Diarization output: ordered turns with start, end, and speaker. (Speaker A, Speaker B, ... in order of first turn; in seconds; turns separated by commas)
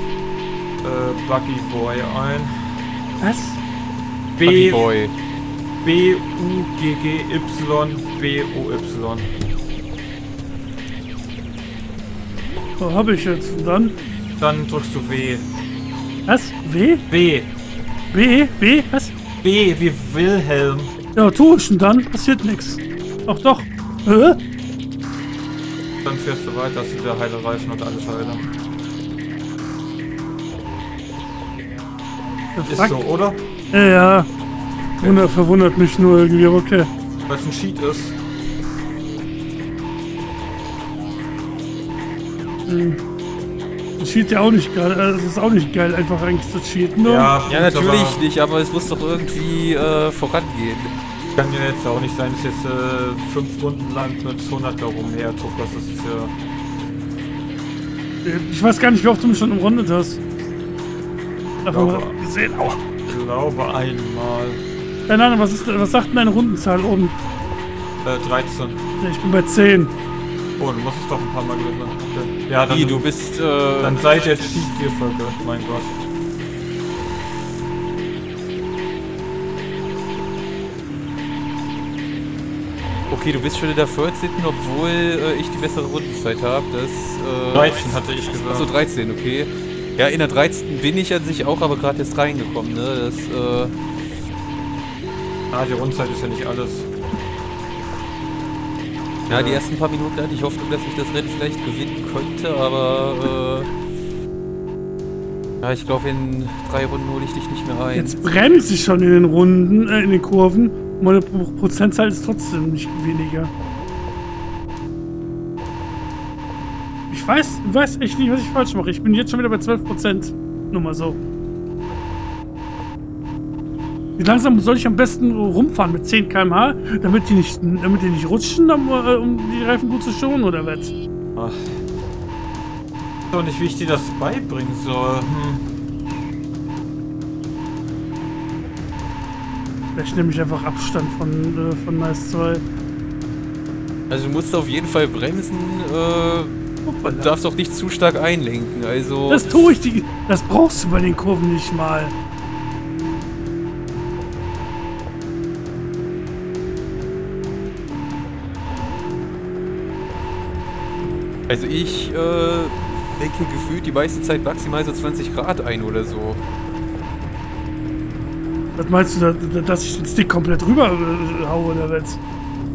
Speaker A: 0.8-2.8, Speaker B: 3.2-3.6, Speaker A: 4.4-4.9, Speaker C: 4.4-5.1, Speaker A: 5.8-9.3, Speaker B: 12.8-13.9, Speaker A: 14.4-15.4, Speaker B: 16.3-17.0, Speaker A: 17.1-17.5, Speaker B: 18.1-19.1, Speaker A: 19.4-20.9, Speaker B: 21.1-24.4, Speaker A: 26.0-28.4, Speaker B: 32.5-33.0, Speaker A: 32.6-33.4, Speaker B: 33.7-34.3, Speaker A: 35.0-35.3, Speaker B: 35.0-36.9, Speaker A: 37.2-38.2, Speaker B: 42.7-43.0, Speaker B: 44.0-47.3, Speaker A: 47.0-48.2, Speaker C: 47.5-50.9, Speaker A: 51.4-56.3, Speaker B: 58.2-60.2, Speaker B: 61.6-62.8, Speaker A: 61.7-62.2, Speaker A: 63.0-64.6, Speaker B: 65.1-67.2, Speaker A: 68.0-68.8, Speaker B: 69.0-69.9, Speaker A: 70.6-73.1, Speaker C: 72.7-74.0, Speaker A: 73.8-76.0, Speaker C: 83.1-93.7, Speaker A: 87.5-88.7, Speaker A: 95.5-96.9, Speaker A: 99.3-99.6, Speaker C: 99.3-103.7, Speaker C: 105.6-108.2, Speaker B: 107.9-113.5, Speaker B: 117.1-121.2, Speaker B: 124.2-130.9, Speaker A: 131.3-131.8, Speaker A: 133.3-135.7, Speaker B: 139.9-142.6, Speaker C: 144.1-149.5, Speaker B: 146.8-147.3, Speaker B: 149.3-152.1, Speaker C: 161.5-166.4, Speaker B: 168.8-172.2